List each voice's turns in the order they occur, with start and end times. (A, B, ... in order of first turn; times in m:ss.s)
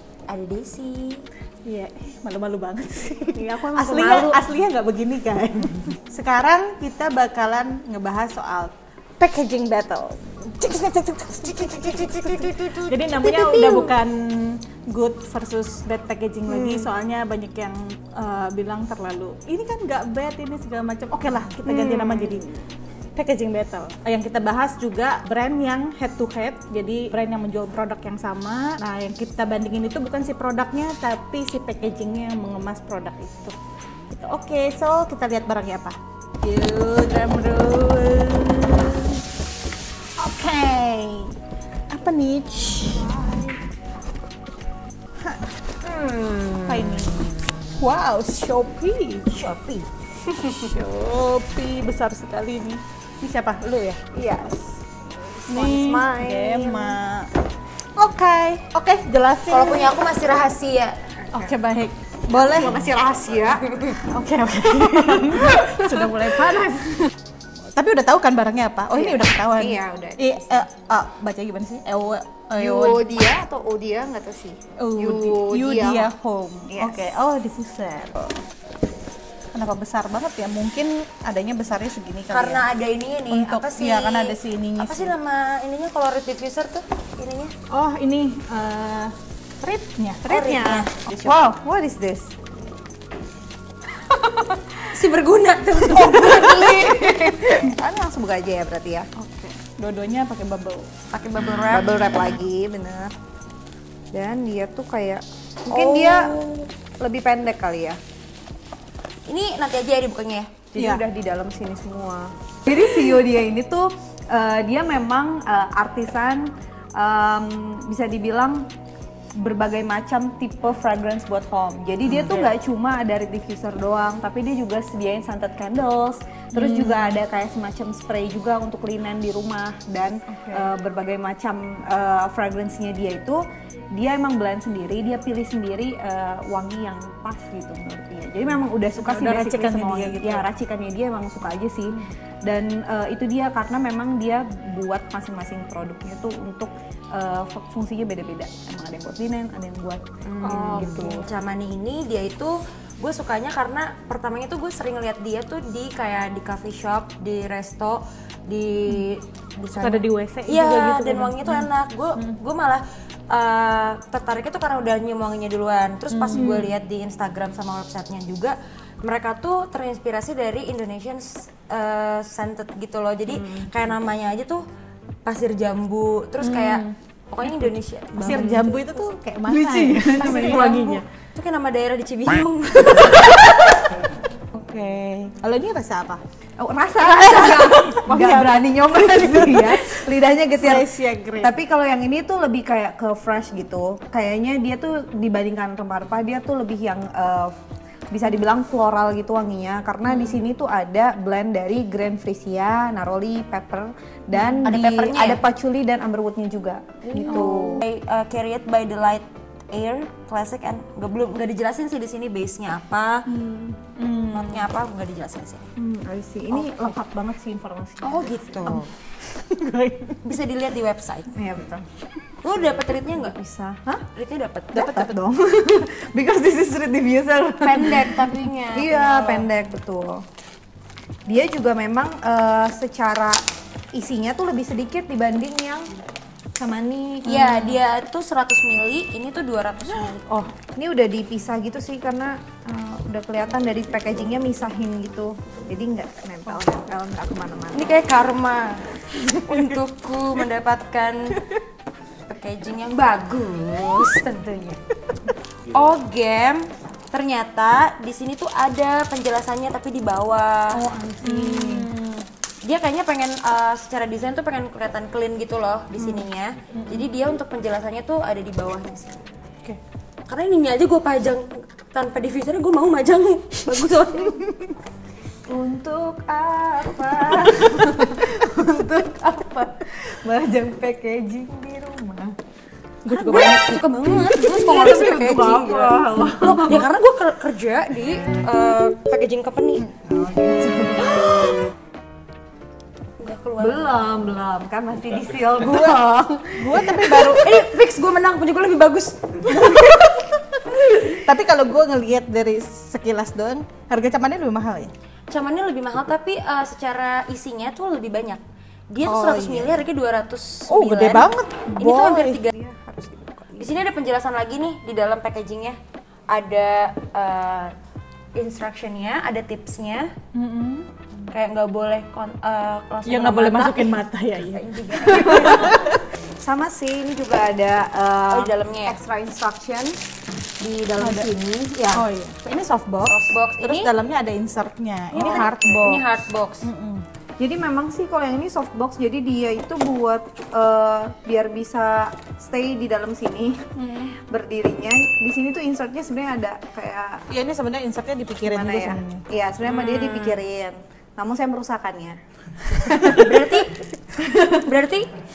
0:00.3-0:01.2 A
0:01.6-0:22.5 B
0:03.3-0:04.4 C
0:12.4-0:13.9 C
0:16.5-0:16.9 C
0:21.6-0:22.6 C
0:23.2-0:33.6 B
0:34.1-0:39.2 B
0:40.2-0:41.3 B
0:41.9-0:43.5 B
0:45.2-0:45.5 B
0:45.8-0:46.6 C
0:46.7-0:49.5 B
0:49.4-0:49.8 A
0:50.6-0:54.0 B
0:54.1-0:57.0 C
0:55.5-0:57.3 B
0:58.0-1:00.0 B
0:59.5-1:01.0 A
1:01.3-1:02.9 B
1:02.3-1:03.9 C
1:04.0-1:07.0 B
1:05.1-1:06.2 C
1:07.8-1:13.1 B
1:08.9-1:10.2 C
1:12.6-1:16.1 C
1:14.8-1:18.3 B
1:16.7-1:17.1 C
1:19.5-1:22.6 B
1:22.3-1:27.5 A
1:23.3-1:25.1 B
1:27.7-1:30.2 B
1:30.2-1:31.4 A
1:30.2-1:32.3 C
1:34.1-1:34.8 C
1:34.9-1:37.4 A
1:35.8-1:39.1 C
1:39.2-1:40.9 B
1:41.1-1:42.0 A
1:41.6-1:43.1 C
1:44.1-1:46.3 C
1:45.7-1:46.6 A
1:47.0-1:48.0 C
1:49.2-1:50.5 A
1:50.7-1:58.7 C
1:50.8-1:51.0 B
1:59.4-2:13.4 C
2:02.1-2:02.5 B
2:06.5-2:07.2 B
2:10.3-2:10.7 B
2:13.9-2:31.3 C
2:19.0-2:20.5 B
2:30.2-2:54.6 A
2:30.4-2:31.1 B
2:39.7-2:42.4 B
2:46.1-2:46.7 B
2:46.3-2:46.7 C
2:53.4-2:53.7 C
2:55.2-2:58.7 A
2:56.4-2:56.9 B
2:58.2-3:01.0 B
2:58.2-2:58.8 C
2:59.4-3:00.9 C
3:00.1-3:03.6 A
3:04.5-3:06.2 B
3:06.6-3:17.5 C
3:07.0-3:09.9 B
3:10.6-3:11.5 B
3:18.1-3:27.8 C
3:24.6-3:25.4 A
3:27.1-3:33.2 A
3:27.3-3:27.8 B
3:33.3-3:33.8 C
3:34.0-3:34.6 B
3:34.3-3:35.7 A
3:35.8-3:38.7 C
3:38.0-3:38.9 A
3:39.4-3:40.2 B
3:40.2-3:41.4 A
3:41.3-3:41.8 C
3:42.4-3:43.4 A
3:43.1-3:44.0 C
3:44.1-3:45.0 A
3:44.7-3:50.2 C
3:44.7-3:45.1 B
3:47.6-3:49.5 A
3:51.2-3:53.4 C
3:53.9-3:55.9 C
3:56.6-3:57.7 C
3:57.2-4:00.2 A
3:57.4-3:57.7 B
4:00.0-4:00.5 B
4:00.8-4:08.0 C
4:07.7-4:11.4 A
4:12.2-4:14.8 A
4:15.7-4:21.9 A
4:20.7-4:22.1 B
4:22.6-4:29.3 A
4:26.7-4:27.1 B
4:30.3-4:34.4 A
4:35.5-4:42.4 C
4:43.0-4:43.7 B
4:43.1-4:49.9 A
4:44.3-4:46.9 C
4:49.9-4:51.7 C
4:53.2-4:54.0 A
4:53.6-4:57.5 C
4:55.6-4:56.0 B
4:56.5-4:57.5 B
4:57.3-5:00.0 A
4:59.5-5:00.2 B
5:00.8-5:04.9 B
5:05.3-5:12.5 A
5:09.0-5:09.8 B
5:10.7-5:12.4 B
5:12.5-5:13.8 C
5:13.6-5:17.7 A
5:18.3-5:20.1 A
5:20.3-5:20.9 B
5:21.3-5:24.0 A
5:23.1-5:26.0 B
5:24.5-5:25.7 A
5:26.4-5:30.0 C
5:28.3-5:29.0 A
5:30.6-5:32.0 C
5:31.0-5:36.0 B
5:33.0-5:33.9 A
5:35.1-5:36.0 C
5:35.2-5:36.7 A
5:36.6-5:37.0 B
5:37.4-5:47.2 C
5:43.8-5:44.1 B
5:47.3-5:49.2 B
5:48.4-5:53.4 C
5:49.6-5:50.4 A
5:53.1-5:53.8 A
5:54.1-5:54.7 C
5:54.5-5:55.1 A